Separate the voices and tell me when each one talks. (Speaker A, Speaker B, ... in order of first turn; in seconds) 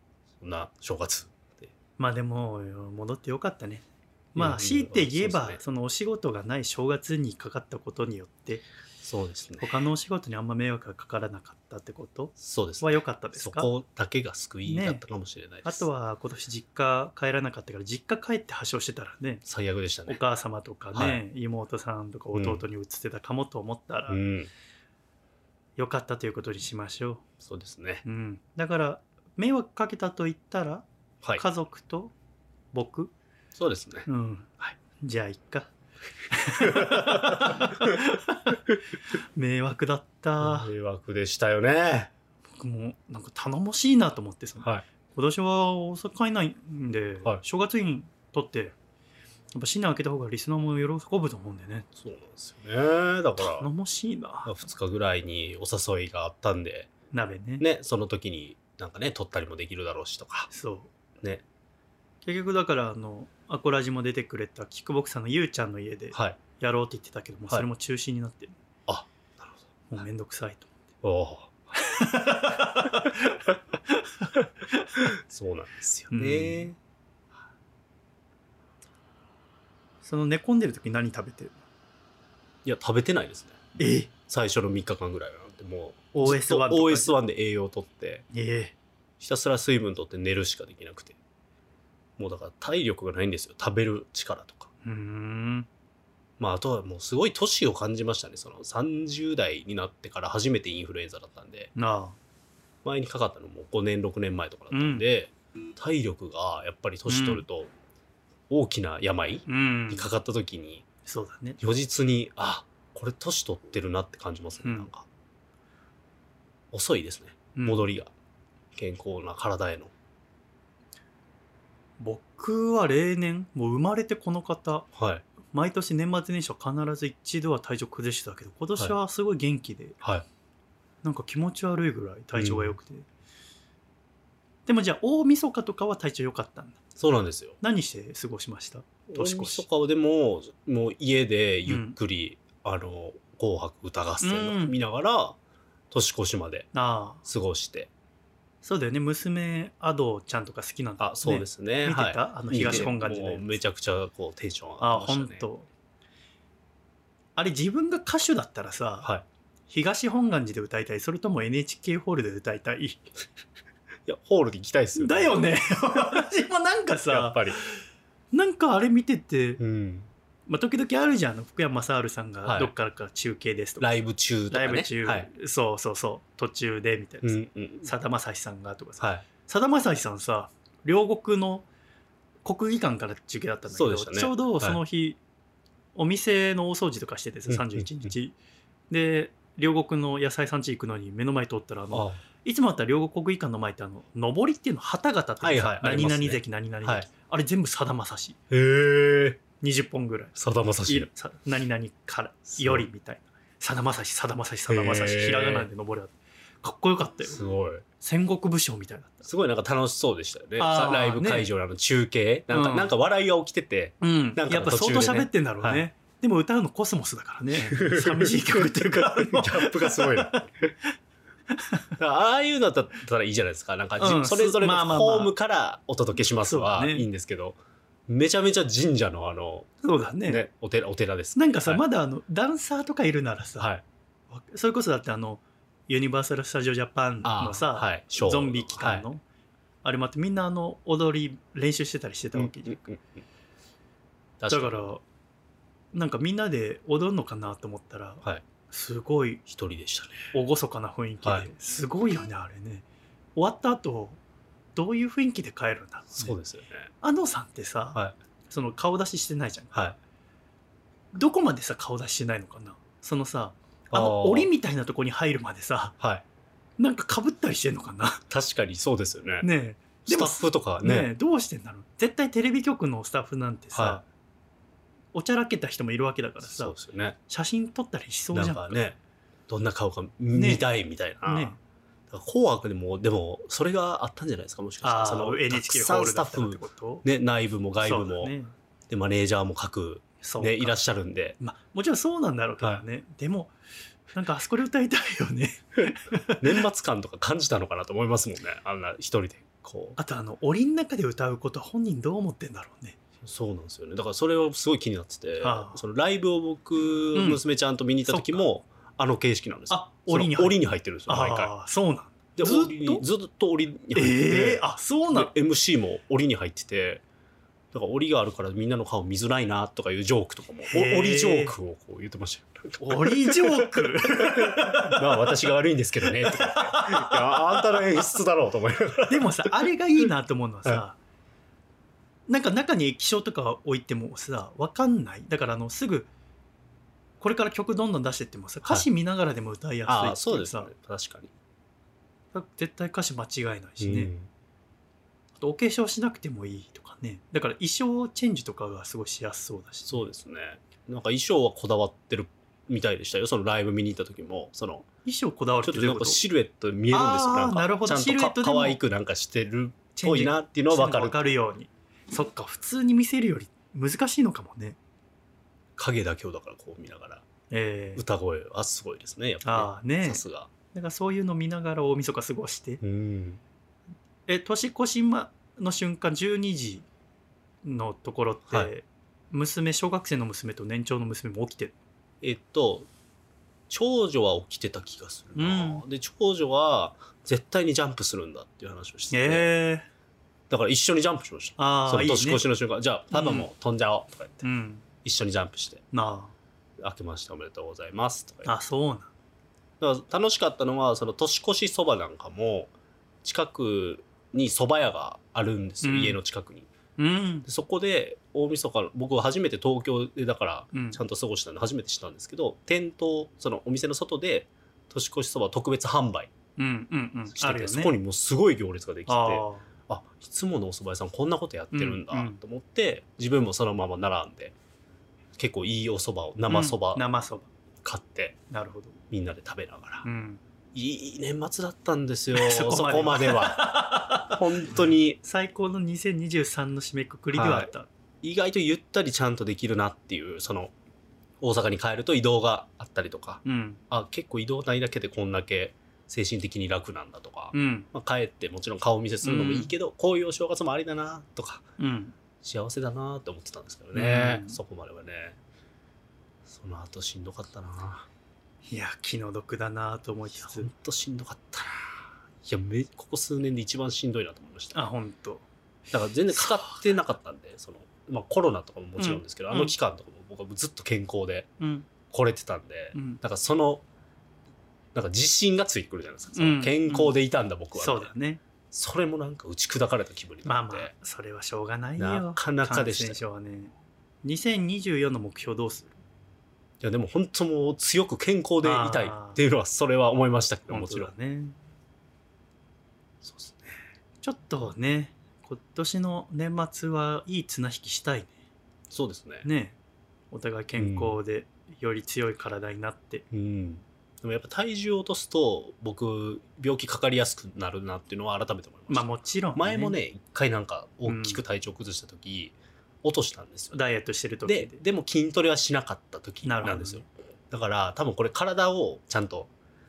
Speaker A: 0.4-1.7, 4.3-5.6, 9.0-9.8, 12.4-15.8, 19.5-20.2, 20.9-21.2, 22.3-22.6, 24.1-24.5, 27.4-28.1, 33.6-34.1, 36.6-38.0, 40.4-42.1, 52.0-53.7, 54.4-56.9, 57.6-60.5, 66.1-66.4, 68.9-69.6, 71.0-71.5, 75.0-76.8, 82.7-83.6, 84.3-88.3, 89.2-91.2, 92.2-94.7, 96.4-101.7, 102.8-107.7, 108.5-110.8, 111.6-115.1, 116.7-118.1, 118.8-119.9, 125.0-125.2, 132.3-132.8, 137.0-137.6, 139.1-145.4, 145.9-146.7, 147.2-147.9, 151.0-155.5, 164.1-165.4, 167.1-167.6, 169.6-170.1, 172.4-172.7, 173.8-175.3, 177.2-177.9, 179.0-179.2, 183.7-184.8, 187.5-188.1, 191.9-192.2, 195.4-197.1, 198.5-199.4, 200.4-201.1, 202.5-202.9, 204.7-205.7, 207.3-207.8, 209.2-215.8, 217.5-220.8, 222.0-229.7, 230.2-231.8, 233.6-233.8, 237.2-239.1, 242.3-243.2, 244.4-244.9, 249.5-250.3, 251.2-251.5, 256.1-256.9, 263.9-264.5, 268.3-269.5, 270.1-271.1, 273.7-274.0, 276.4-277.2, 278.3-279.0, 279.5-281.6, 282.1-288.3, 288.9-291.4, 296.4-300.0, 303.2-311.5, 312.4-317.0, 317.7-329.7, 339.9-341.3, 343.8-344.3, 349.9-354.9, 355.6-361.2, 365.8-367.2, 368.0-370.5, 372.8-373.4, 382.2-382.9, 383.7-389.5, 390.5-394.4, 395.0-395.8, 396.8-398.5, 399.8-402.7, 403.2-406.7, 407.5-416.3, 417.3-424.6, 425.4-427.0, 427.8-428.4, 429.1-430.1, 430.7-435.2, 437.3-437.7, 438.2-440.7, 441.4-451.6, 452.4-455.4, 456.4-458.1, 460.4-464.8, 465.9-471.5, 472.1-473.8, 474.9-478.1, 478.7-480.9, 482.0-483.2, 486.8-491.1, 493.2-493.8, 498.9-499.5, 500.8-501.2, 503.3-513.8, 514.5-519.5
Speaker B: 2.0-8.7, 9.6-13.7, 14.7-15.0, 15.6-19.4, 20.1-24.2, 25.8-27.2, 28.1-32.1, 32.7-33.1, 34.1-35.7, 36.3-38.6, 39.2-40.7, 42.6-48.8, 49.5-51.9, 53.4-54.7, 57.1-57.6, 60.5-60.9, 62.2-68.5, 69.9-70.7, 71.8-75.1, 76.1-76.7, 80.0-81.6, 83.8-84.1, 86.1-87.1, 88.3-88.7, 94.8-95.7, 101.8-102.2, 104.7-105.0, 107.1-107.4, 109.5-110.1, 111.1-111.6, 114.6-114.9, 117.6-117.9, 122.0-124.9, 125.5-130.0, 131.0-133.1, 134.7-136.8, 137.6-139.7, 141.7-142.0, 144.2-144.8, 146.7-147.2, 148.6-153.6, 154.8-155.7, 157.4-159.1, 159.7-163.0, 165.0-169.6, 170.5-173.9, 174.5-181.7, 182.4-185.2, 185.9-188.3, 188.9-198.4, 199.6-200.4, 200.9-207.4, 208.0-209.2, 210.6-211.5, 212.5-212.9, 214.0-220.4, 221.5-221.9, 224.0-225.3, 226.4-227.1, 229.8-230.4, 231.4-233.7, 234.3-239.2, 239.8-242.8, 244.5-245.0, 245.9-249.4, 250.3-252.8, 253.4-254.2, 254.8-256.4, 257.0-259.9, 261.1-265.9, 266.8-268.2, 269.4-274.0, 275.1-276.8, 277.3-278.9, 280.4-280.7, 281.2-281.6, 284.8-287.1, 287.8-288.5, 290.2-290.8, 291.4-293.5, 294.1-296.6, 300.0-303.0, 305.4-305.8, 307.1-307.4, 308.1-308.4, 309.7-313.1, 313.9-315.3, 320.7-321.5, 322.8-325.3, 326.0-328.1, 329.1-331.0, 332.3-336.1, 337.2-340.7, 342.3-344.1, 345.4-350.1, 355.1-356.2, 356.9-358.8, 360.0-364.8, 367.5-368.0, 369.4-372.8, 374.3-376.9, 377.6-381.7, 385.4-385.8, 389.1-389.9, 391.6-392.4, 393.1-393.5, 394.4-394.9, 395.9-396.3, 398.4-399.1, 405.8-406.2, 407.0-407.5, 410.7-411.0, 416.6-417.9, 419.1-419.7, 421.7-422.4, 426.5-427.5, 428.5-429.0, 430.1-430.4, 432.3-437.9, 443.4-443.8, 447.5-447.9, 449.2-449.7, 451.8-452.1, 453.9-454.6, 458.7-460.7, 464.7-465.5, 466.3-466.8, 469.0-469.7, 471.6-471.9, 472.9-473.2, 476.3-477.1, 477.8-478.4, 480.4-486.0, 488.6-489.4, 490.7-491.6, 494.2-498.4, 499.4-499.8, 500.3-503.2, 508.9-510.0, 511.1-511.4, 513.7-514.8, 516.4-517.0